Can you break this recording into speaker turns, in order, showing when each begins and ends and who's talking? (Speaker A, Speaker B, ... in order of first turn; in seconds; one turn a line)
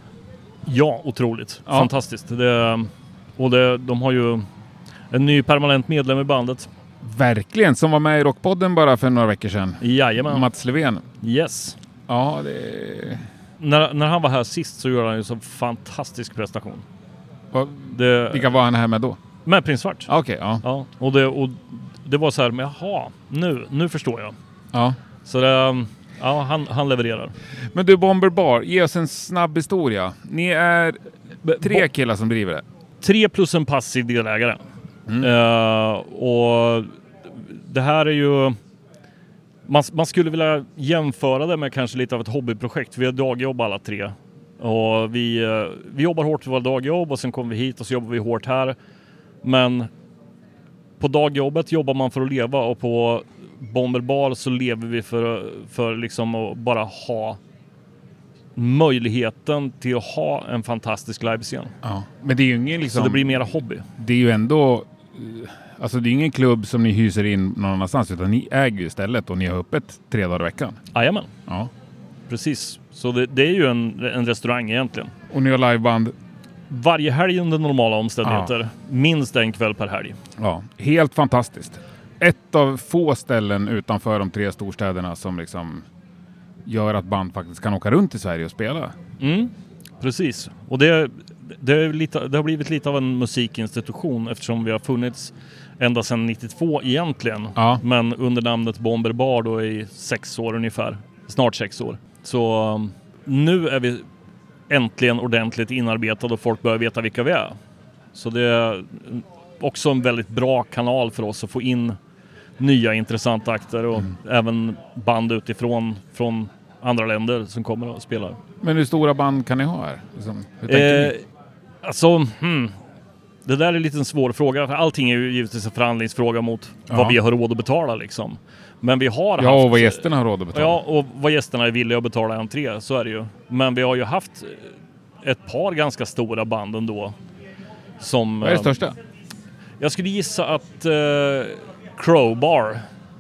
Speaker A: 0.7-4.5
Speaker A: 5.1-6.7
Speaker B: 7.0-11.1
Speaker A: 9.8-10.5
Speaker A: 11.2-11.8
Speaker B: 12.1-13.2
Speaker A: 13.6-16.8
Speaker B: 17.5-19.2
Speaker A: 17.9-18.5
Speaker A: 19.5-20.1
Speaker B: 20.1-20.6
Speaker A: 20.6-24.4
Speaker A: 25.3-27.3
Speaker B: 27.7-31.0
Speaker A: 31.4-31.9
Speaker B: 31.6-32.6
Speaker A: 33.0-34.6
Speaker A: 35.2-38.6
Speaker A: 39.7-48.8
Speaker A: 49.4-49.9
Speaker A: 51.0-57.4
Speaker A: 58.6-61.7
Speaker B: 61.8-63.4
Speaker A: 62.9-63.9
Speaker B: 64.0-70.8
Speaker A: 70.9-71.3
Speaker A: 72.3-75.1
Speaker B: 75.3-76.2
Speaker A: 76.7-80.2
Speaker B: 78.2-78.5
Speaker B: 80.4-85.8
Speaker B: 86.7-88.9
Speaker A: 89.2-104.0
Speaker B: 97.6-97.8
Speaker A: 104.7-107.6
Speaker A: 108.1-112.0
Speaker A: 112.6-118.4
Speaker B: 118.6-121.1
Speaker A: 120.7-121.2
Speaker A: 121.8-122.8
Speaker A: 123.5-134.7
Speaker B: 126.9-127.2
Speaker B: 129.4-130.8
Speaker A: 135.2-137.2
Speaker A: 138.0-138.8
Speaker B: 138.4-139.0
Speaker A: 139.8-142.8